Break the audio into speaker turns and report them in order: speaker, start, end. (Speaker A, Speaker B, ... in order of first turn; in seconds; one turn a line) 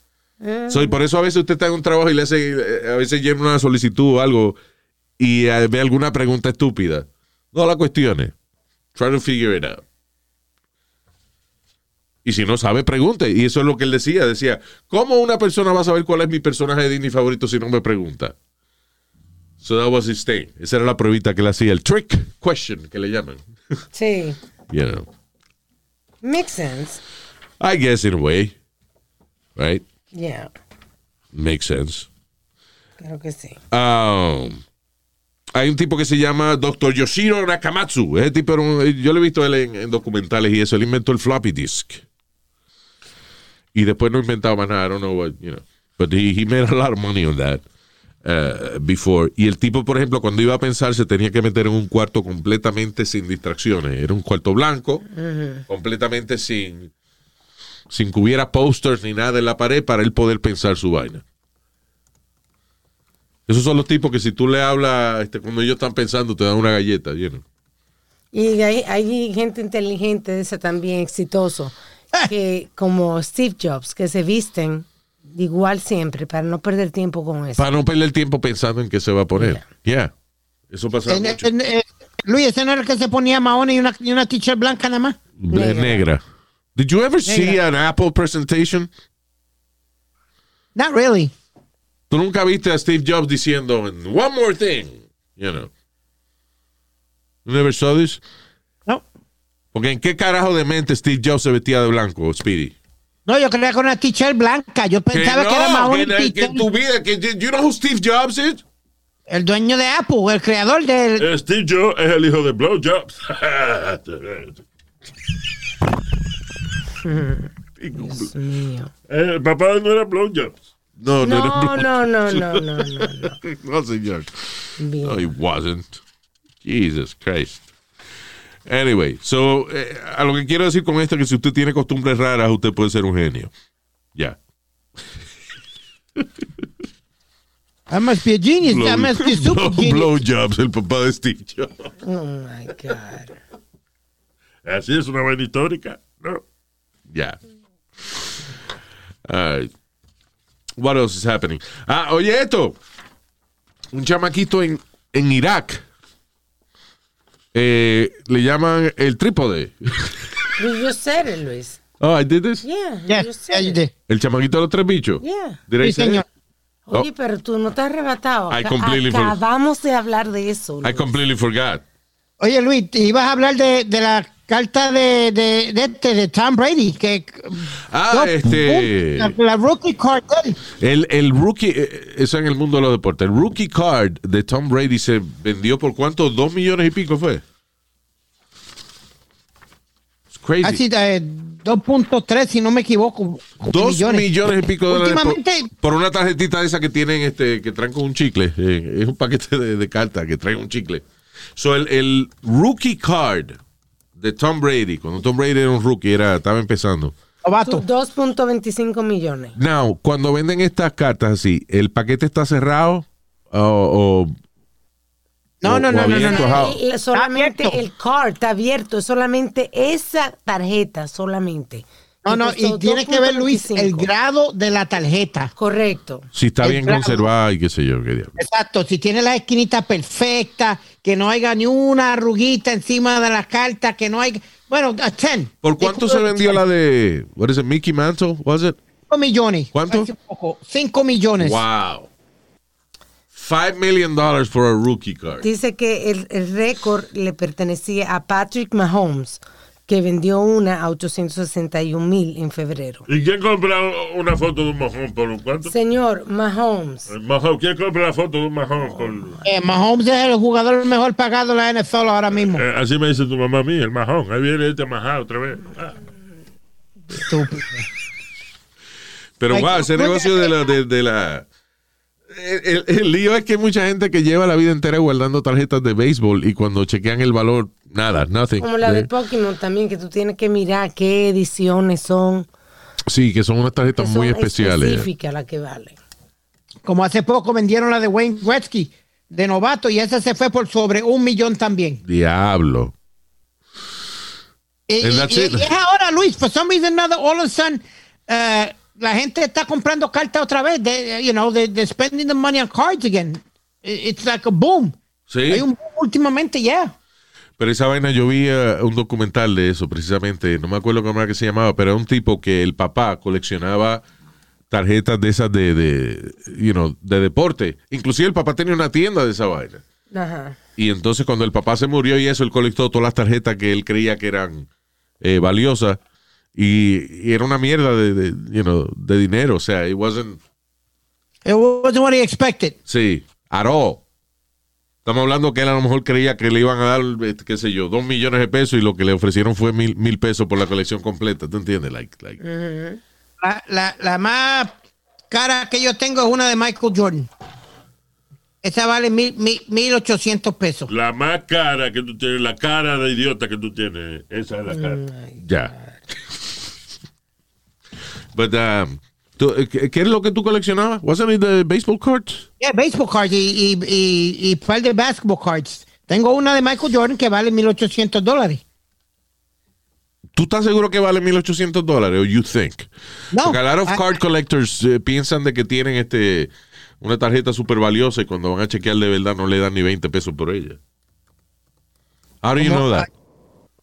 Speaker A: 0.4-0.9
Speaker B: 0.7-4.6
Speaker B: 5.2-8.3
Speaker B: 8.9-9.8
Speaker B: 12.2-18.3
Speaker B: 19.6-23.4
Speaker A: 23.9-24.4
Speaker B: 24.7-25.1
Speaker A: 26.2-27.0
Speaker B: 27.6-28.5
Speaker B: 29.6-29.8
Speaker A: 30.1-30.5
Speaker B: 31.3-32.1
Speaker A: 33.0-33.6
Speaker B: 33.7-34.6
Speaker B: 35.5-42.0
Speaker B: 43.7-47.6
Speaker B: 48.2-55.0
Speaker A: 55.1-55.6
Speaker B: 55.7-56.9
Speaker B: 57.9-61.2
Speaker B: 63.5-67.4
Speaker A: 68.3-77.7
Speaker B: 77.6-80.1
Speaker A: 79.4-79.6
Speaker B: 80.7-81.5
Speaker C: 81.1-85.2
Speaker B: 85.4-86.2
Speaker A: 85.5-86.0
Speaker B: 86.8-88.9
Speaker C: 87.3-87.6
Speaker C: 90.8-91.3
Speaker B: 92.1-95.7
Speaker B: 97.5-98.2
Speaker B: 99.7-102.8
Speaker C: 103.3-106.7
Speaker B: 105.1-108.6
Speaker C: 109.3-111.3
Speaker D: 111.2-114.6
Speaker A: 117.0-118.9
Speaker B: 117.8-118.3
Speaker D: 119.1-120.6
Speaker B: 121.0-126.0
Speaker A: 121.2-123.4
Speaker A: 124.8-125.3
Speaker B: 126.6-127.6
Speaker B: 128.7-133.5
Speaker C: 137.9-140.2
Speaker B: 138.6-141.9
Speaker A: 142.0-143.4
Speaker D: 144.7-146.4
Speaker B: 147.1-147.4
Speaker B: 149.3-149.7
Speaker B: 150.8-152.8
Speaker B: 153.9-155.8
Speaker B: 157.5-160.3
Speaker A: 160.6-161.8
Speaker B: 162.0-162.6
Speaker A: 162.6-163.8
Speaker C: 163.1-163.9
Speaker B: 164.1-166.2
Speaker A: 165.2-165.6
Speaker C: 165.8-166.2
Speaker A: 166.9-171.1
Speaker B: 168.5-169.4
Speaker B: 170.8-171.8
Speaker C: 172.4-180.6
Speaker B: 177.9-179.4
Speaker B: 180.8-187.4
Speaker B: 190.3-190.8
Speaker C: 190.6-194.3
Speaker B: 193.7-201.0
Speaker C: 194.9-195.7
Speaker B: 201.6-203.6
Speaker B: 204.2-207.1
Speaker C: 207.4-207.8
Speaker A: 207.6-209.6
Speaker B: 209.6-214.3
Speaker C: 215.6-217.8
Speaker B: 215.7-216.8
Speaker A: 216.0-224.1
Speaker C: 222.2-225.5
Speaker A: 225.6-226.3
Speaker B: 226.3-228.4
Speaker C: 226.6-227.3
Speaker C: 228.4-236.6
Speaker B: 235.6-238.8
Speaker C: 239.1-241.6
Speaker B: 239.7-240.1
Speaker B: 241.4-242.1
Speaker B: 243.3-245.5
Speaker A: 245.4-253.1
Speaker D: 253.1-255.7
Speaker A: 255.7-257.1
Speaker D: 257.1-259.4
Speaker C: 259.4-262.6
Speaker D: 262.5-266.0
Speaker C: 267.1-267.8
Speaker B: 269.4-271.5
Speaker C: 269.5-270.5
Speaker B: 272.3-279.1
Speaker A: 278.6-282.5
Speaker B: 283.1-285.1
Speaker A: 284.0-286.0
Speaker C: 286.9-292.0
Speaker B: 292.1-292.9
Speaker C: 294.9-305.0
Speaker B: 295.0-295.7
Speaker B: 305.3-305.7
Speaker C: 305.5-306.9
Speaker B: 307.6-314.0
Speaker B: 314.7-319.8
Speaker A: 320.1-320.6
Speaker B: 320.8-324.7
Speaker B: 325.2-326.0
Speaker B: 326.6-330.4
Speaker C: 331.4-332.8
Speaker B: 332.9-334.0
Speaker B: 335.1-342.4
Speaker A: 342.4-343.0
Speaker C: 343.4-344.7
Speaker C: 345.3-347.3
Speaker C: 348.6-350.9
Speaker D: 350.9-355.0
Speaker A: 354.7-356.0
Speaker B: 355.4-355.7
Speaker B: 358.4-362.4
Speaker C: 362.6-368.6
Speaker B: 370.4-380.8
Speaker C: 373.3-374.0
Speaker B: 382.4-383.1
Speaker C: 382.6-383.1